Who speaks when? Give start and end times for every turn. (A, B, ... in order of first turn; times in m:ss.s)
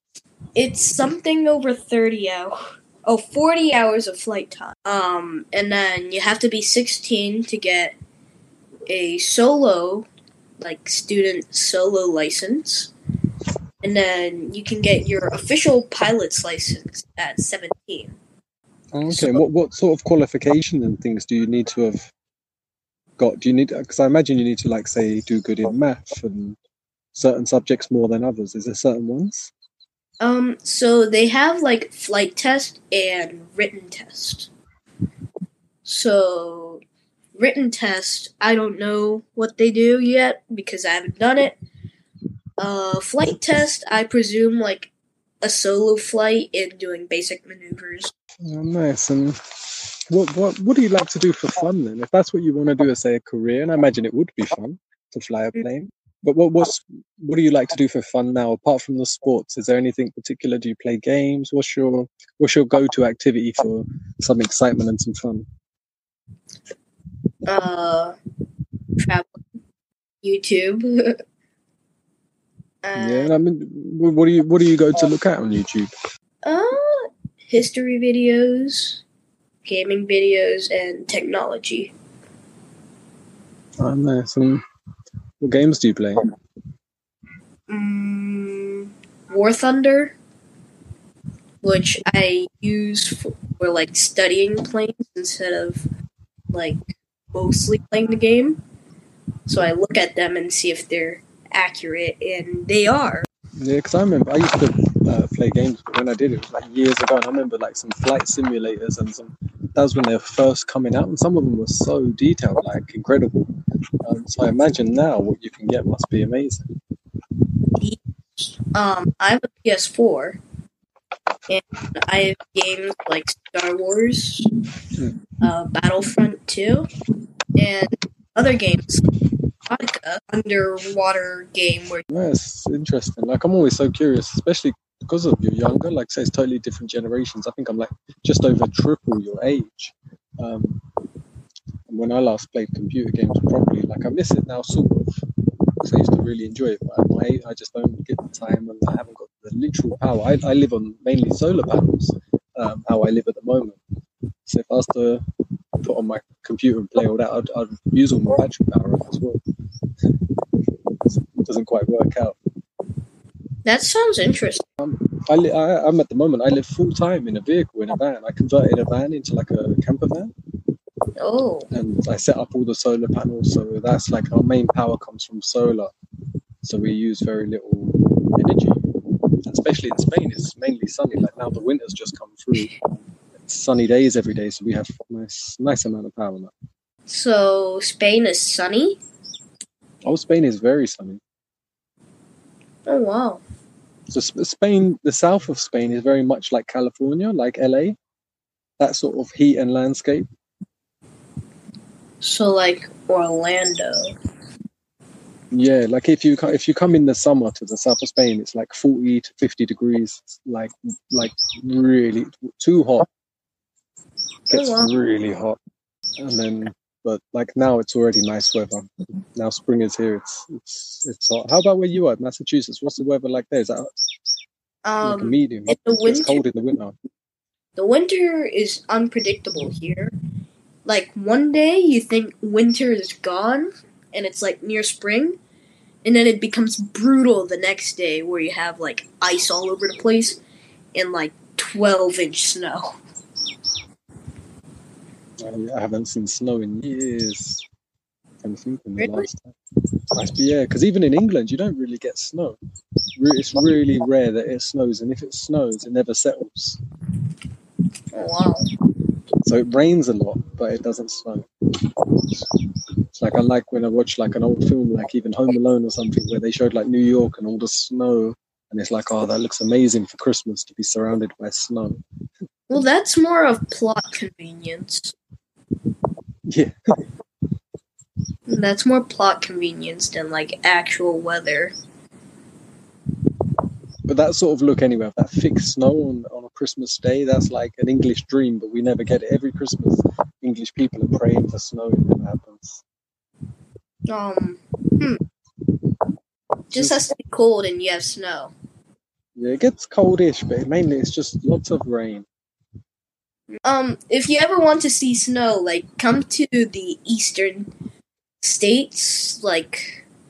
0:00.5-0:08.0 A
0:08.9-0:10.1 A
0:10.6-0:12.9 A
0:13.8-0:18.2 A
0:18.9-0:22.1 B
0:19.1-0:19.4 A
0:23.2-0:26.6 B
0:27.1-0:29.5 B
0:30.2-0:34.5 A
0:35.8-0:36.8 A
0:37.4-0:41.6 A
0:42.6-0:44.9 A
0:45.4-0:48.1 A
0:48.4-0:49.4 B
0:50.1-1:05.5 B
1:07.5-1:08.1 A
1:09.0-1:09.4 A
1:10.2-1:11.2 A
1:12.8-1:13.3 A
1:13.0-1:15.9 B
1:16.4-1:19.0 A
1:19.6-1:21.9 A
1:23.8-1:24.6 B
1:25.4-1:26.2 B
1:27.7-1:30.1 A
1:31.6-1:35.9 A
1:36.5-1:38.6 A
1:39.5-1:43.2 A
1:43.6-1:53.5 B
1:54.0-1:56.7 B
1:57.8-2:00.4 A
2:01.5-2:04.5 A
2:05.4-2:06.9 A
2:07.6-2:09.0 A
2:09.7-2:12.0 A
2:12.1-2:20.8 B
2:21.9-2:25.2 B
2:25.8-2:33.8 B
2:34.4-2:35.2 B
2:35.8-2:39.4 B
2:41.0-2:42.4 B
2:43.6-2:44.7 A
2:44.8-2:50.3 B
2:51.2-2:51.7 A
2:51.7-2:55.9 B
2:56.6-2:58.9 B
2:59.4-3:02.7 B
3:03.4-3:06.5 B
3:07.1-3:09.0 A
3:10.0-3:11.2 B
3:12.8-3:13.4 A
3:14.1-3:18.0 B
3:18.8-3:20.3 B
3:22.2-3:24.1 A
3:25.5-3:33.1 B
3:34.5-3:35.6 B
3:34.5-3:34.9 A
3:36.2-3:43.9 B
3:44.8-3:46.4 A
3:45.0-3:46.9 B
3:47.8-3:50.1 A
3:50.8-3:55.4 A
3:56.0-4:00.4 A
4:00.9-4:02.9 A
4:05.4-4:07.6 B
4:08.4-4:09.5 B
4:09.0-4:09.3 A
4:10.1-4:12.6 B
4:13.2-4:16.8 B
4:18.1-4:18.7 A
4:19.4-4:21.5 B
4:23.1-4:32.0 B
4:32.7-4:35.1 A
4:36.5-4:36.7 B
4:38.5-4:41.7 A
4:44.0-4:52.8 B
4:54.1-4:55.2 A
4:56.7-4:58.5 A
4:56.7-4:57.0 B
4:59.4-5:02.3 B
5:03.6-5:07.7 A
5:08.4-5:10.0 A